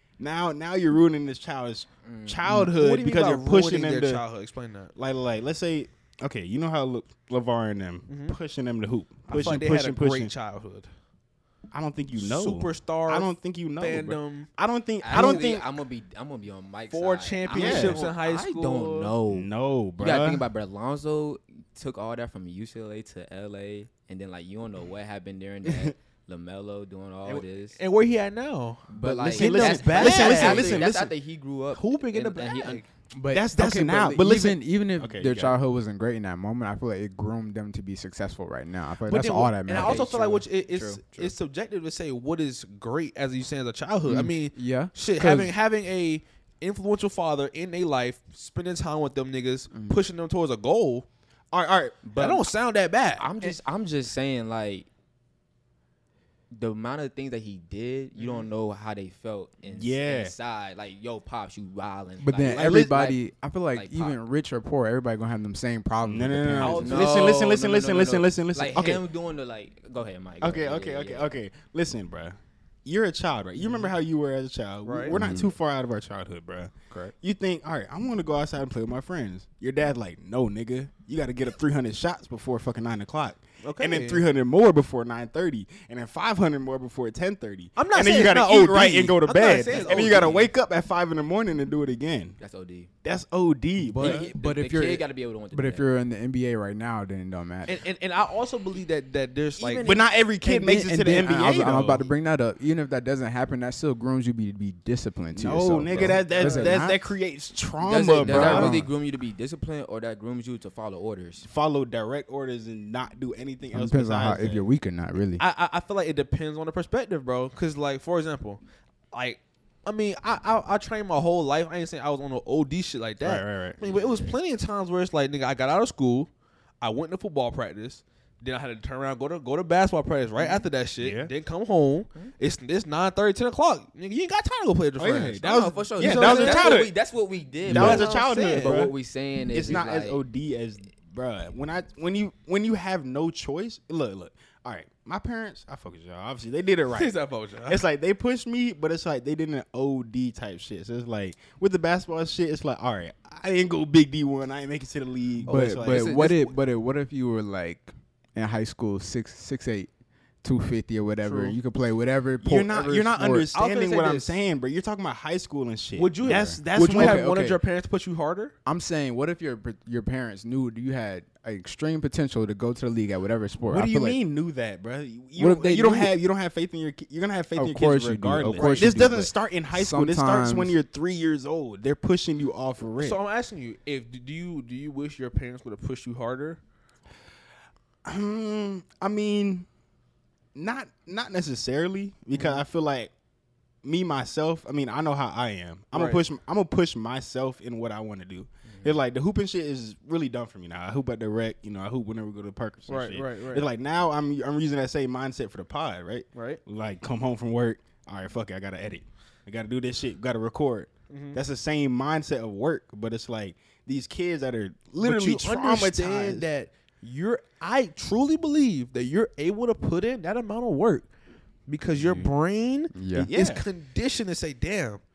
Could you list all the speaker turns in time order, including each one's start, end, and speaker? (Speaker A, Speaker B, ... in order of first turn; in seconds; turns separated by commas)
Speaker A: 0.2-4.2, Speaker B: 2.0-2.4, Speaker C: 2.4-4.9, Speaker A: 5.0-10.3, Speaker C: 8.1-8.4, Speaker C: 9.3-10.9, Speaker A: 11.7-15.7, Speaker C: 12.2-14.5, Speaker B: 15.0-27.8, Speaker C: 15.1-15.5, Speaker C: 16.9-19.1, Speaker A: 17.5-18.1, Speaker A: 19.2-20.4, Speaker C: 27.2-30.9, Speaker B: 28.9-32.8, Speaker A: 29.0-31.1, Speaker C: 31.7-32.9, Speaker D: 33.1-40.2, Speaker A: 33.3-35.6, Speaker C: 39.0-51.0, Speaker B: 39.7-41.0, Speaker D: 40.8-41.3, Speaker D: 44.0-45.5, Speaker D: 49.7-50.0, Speaker A: 51.5-52.1, Speaker B: 52.0-52.5, Speaker C: 52.1-53.5, Speaker B: 53.2-54.9, Speaker B: 56.5-64.2, Speaker C: 58.2-58.5, Speaker A: 59.7-60.3, Speaker D: 62.2-67.0, Speaker A: 62.5-62.9, Speaker A: 66.0-69.0, Speaker C: 66.6-67.4, Speaker B: 66.8-71.4, Speaker A: 70.4-92.4, Speaker C: 74.8-75.2, Speaker D: 75.1-75.5, Speaker C: 83.6-84.3, Speaker C: 87.7-90.5, Speaker B: 89.6-90.5, Speaker B: 92.4-92.9, Speaker A: 93.0-94.3, Speaker D: 93.8-97.8, Speaker B: 94.0-96.0, Speaker C: 97.7-99.9, Speaker B: 99.6-100.1, Speaker A: 99.8-102.1, Speaker D: 100.4-107.1, Speaker A: 105.3-108.8, Speaker B: 105.9-106.8, Speaker B: 107.8-111.5, Speaker D: 108.2-108.9, Speaker A: 111.4-114.7, Speaker D: 113.7-115.4, Speaker C: 115.4-126.3, Speaker A: 123.2-123.9, Speaker B: 123.8-124.4, Speaker C: 126.8-136.8, Speaker B: 130.4-130.7, Speaker A: 131.0-131.3, Speaker A: 135.0-136.9, Speaker B: 135.4-140.2, Speaker A: 137.7-138.9, Speaker C: 137.7-138.8, Speaker A: 139.5-156.1, Speaker C: 146.9-147.8, Speaker C: 155.4-156.6, Speaker D: 155.5-159.9, Speaker D: 160.4-163.5, Speaker C: 161.2-161.6, Speaker A: 162.4-167.2, Speaker C: 163.5-164.4, Speaker C: 165.9-168.5, Speaker D: 166.2-167.6, Speaker D: 168.6-174.2, Speaker A: 173.7-183.2, Speaker D: 175.4-176.2, Speaker D: 177.5-180.8, Speaker B: 178.5-178.9, Speaker C: 182.9-186.6, Speaker A: 188.0-189.7, Speaker A: 190.5-193.1, Speaker C: 192.3-192.6, Speaker A: 193.8-216.4, Speaker C: 195.9-196.2, Speaker B: 198.7-199.0, Speaker C: 202.8-203.7, Speaker C: 206.3-206.6, Speaker C: 211.1-211.4, Speaker C: 215.0-221.1, Speaker C: 221.7-225.0, Speaker D: 221.9-222.3, Speaker D: 222.9-223.3, Speaker A: 223.1-223.7